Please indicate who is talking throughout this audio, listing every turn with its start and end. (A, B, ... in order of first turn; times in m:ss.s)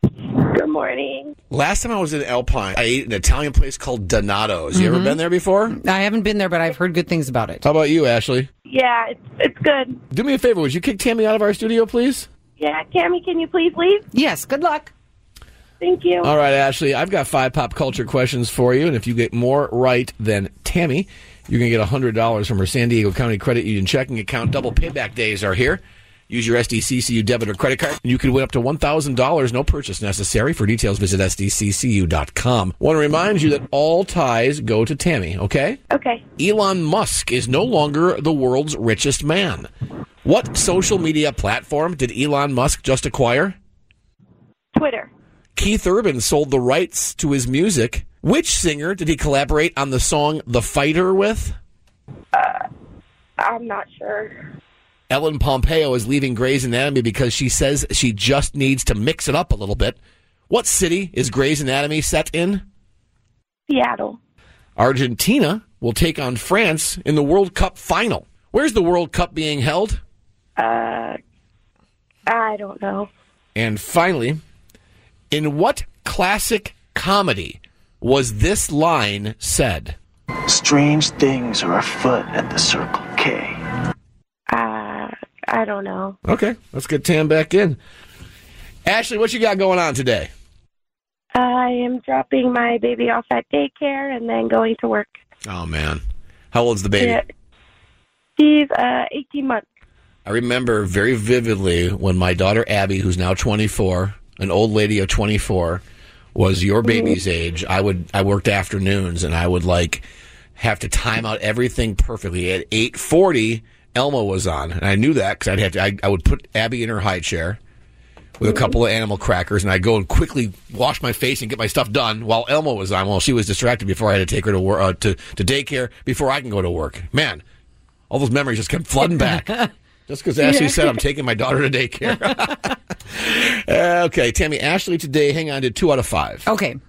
0:00.3-0:01.3 A
0:01.5-0:05.8 B
0:04.7-0:05.2 C
0:05.7-0:07.6 C
0:07.6-0:08.5 B
0:08.7-0:10.0 A
0:10.1-0:12.3 B
0:12.6-0:14.0 A
0:14.1-0:14.9 C
0:15.8-0:16.3 A
0:16.2-0:35.8 B
0:35.9-0:36.2 A
0:36.4-0:39.7 B
0:40.2-0:43.6 B
0:44.8-0:45.1 A
0:45.6-0:51.6 B
0:52.3-0:52.7 A
0:53.4-0:54.4 A
0:55.1-1:00.0 B
1:00.5-1:02.6 B
1:03.7-1:04.2 A
1:04.8-1:10.0 B
1:10.6-1:11.2 A
1:12.3-1:13.1 A
1:13.6-1:14.4 B
1:15.3-1:20.0 B
1:20.5-1:23.6 D
1:24.5-1:26.2 A
1:26.2-1:27.8 B
1:28.9-1:30.3 B
1:31.4-1:35.1 A
1:35.4-1:37.2 B
1:38.4-1:39.7 A
1:40.3-1:45.8 B
1:46.4-1:50.0 B
1:46.8-1:47.2 A
1:50.6-1:57.6 B
1:58.4-2:07.4 B
2:08.1-2:16.5 B
2:10.4-2:11.0 A
2:16.5-2:16.8 C